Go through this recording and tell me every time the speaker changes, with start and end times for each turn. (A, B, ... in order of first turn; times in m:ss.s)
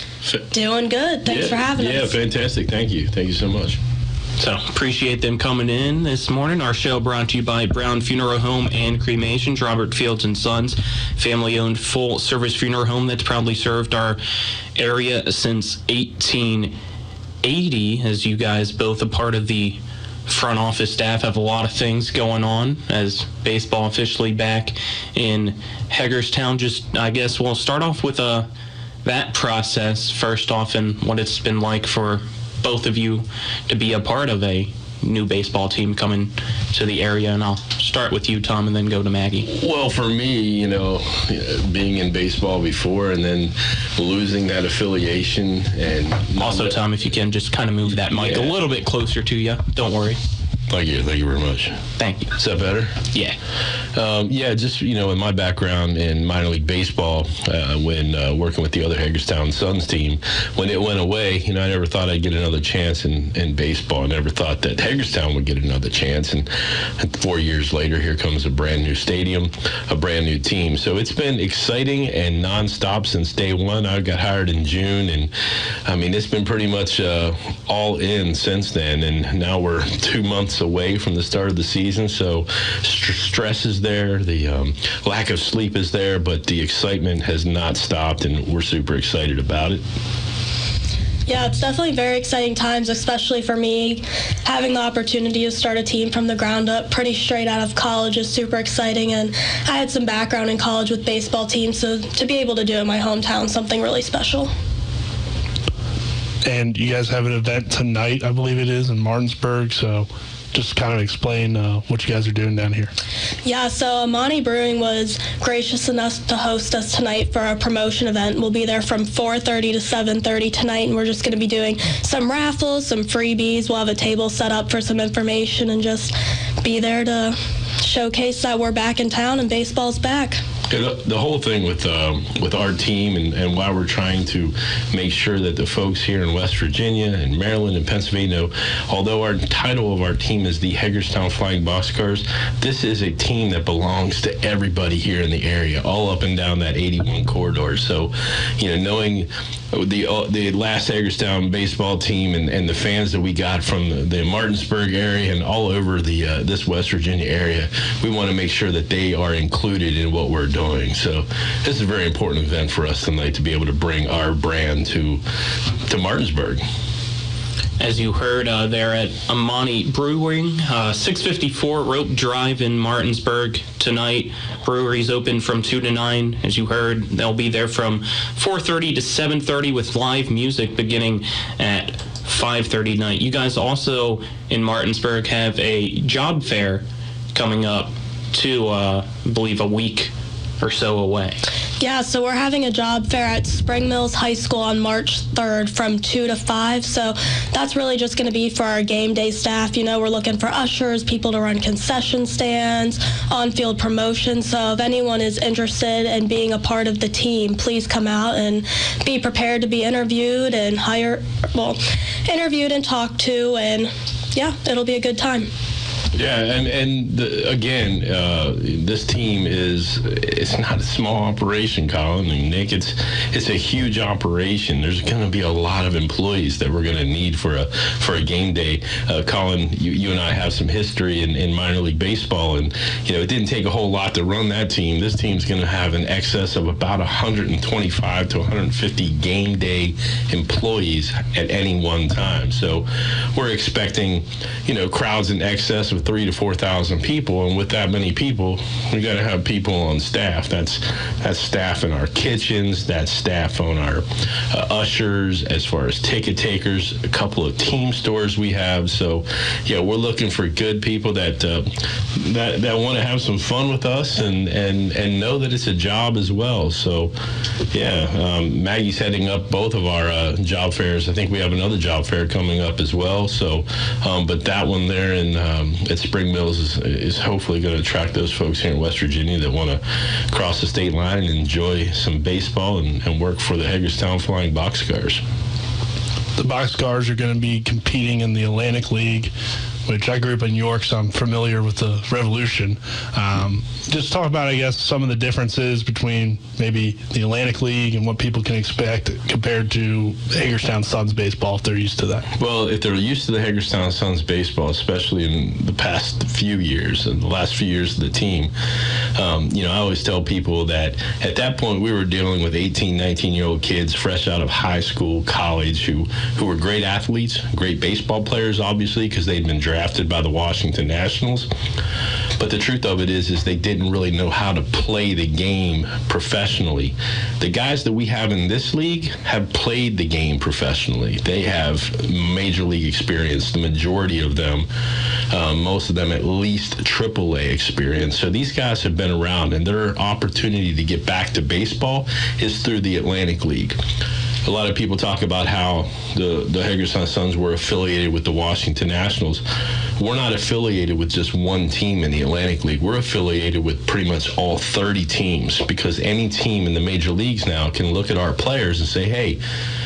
0:00.5-0:02.2 A
0:01.2-0:03.8 B
0:04.4-0:14.2 C
0:14.8-0:16.7 C
0:17.4-0:28.5 C
0:29.0-0:39.5 C
0:39.4-0:46.8 B
0:46.4-0:50.2 C
0:48.1-0:48.5 B
0:50.7-0:51.8 B
0:52.0-0:52.3 C
0:52.3-0:53.0 B
0:53.9-1:06.5 B
1:07.0-1:15.3 B
1:15.9-1:29.8 B
1:31.2-1:44.5 A
1:46.4-1:52.9 D
1:53.4-2:10.4 A
2:10.7-2:45.2 B
2:45.9-2:46.6 B
2:47.8-3:11.4 C
3:11.8-3:35.5 A
3:36.1-4:27.1 B
4:27.7-4:45.2 B
4:46.4-4:49.3 D
4:49.8-5:02.3 D
5:02.4-5:08.5 B
5:09.2-5:21.5 B
5:22.4-5:34.7 B
5:35.3-5:43.8 B
5:44.4-5:49.4 B
5:50.0-5:59.4 B